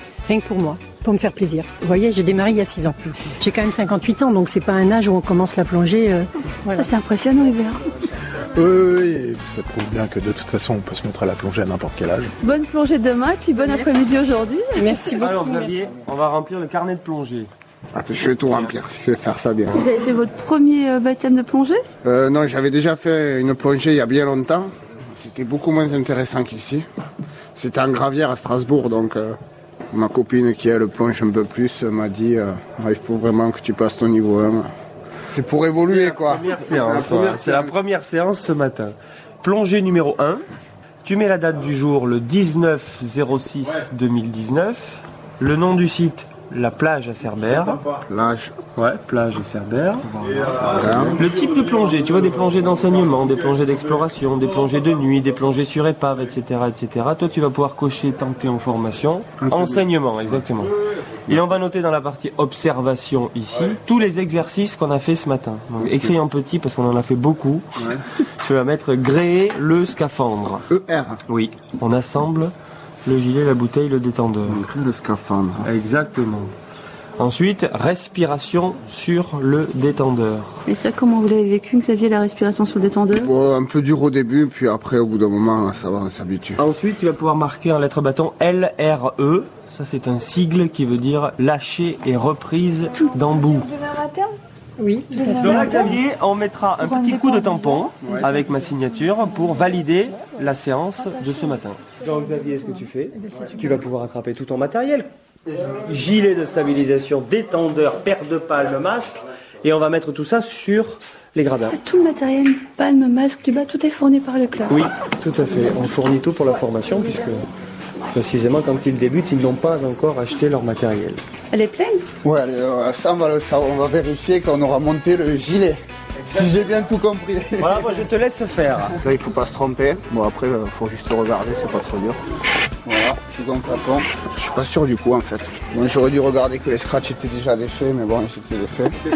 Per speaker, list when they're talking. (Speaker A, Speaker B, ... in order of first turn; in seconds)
Speaker A: 0.3-6.9, 14.7-15.8, 94.8-96.0, 103.3-103.5
Speaker B: 6.7-7.9, 12.4-15.0, 19.7-21.8, 80.7-83.3, 93.8-94.3, 111.7-114.9, 121.5-122.1
Speaker C: 8.4-12.3
Speaker D: 15.2-17.5, 35.9-40.4, 41.0-47.9, 48.8-70.6, 71.3-72.5, 73.0-74.7, 75.6-76.5, 77.2-80.6, 86.6-93.8, 95.4-111.8, 114.7-117.5, 118.1-121.2, 127.6-129.0
Speaker E: 17.9-19.8, 22.0-26.8, 27.6-29.4, 29.9-34.7, 35.3-37.7, 48.1-48.6, 50.5-51.2, 59.4-59.8, 65.8-66.1, 70.7-71.2, 74.5-75.7, 83.1-86.6, 122.2-128.0, 129.0-132.2, 132.8-138.9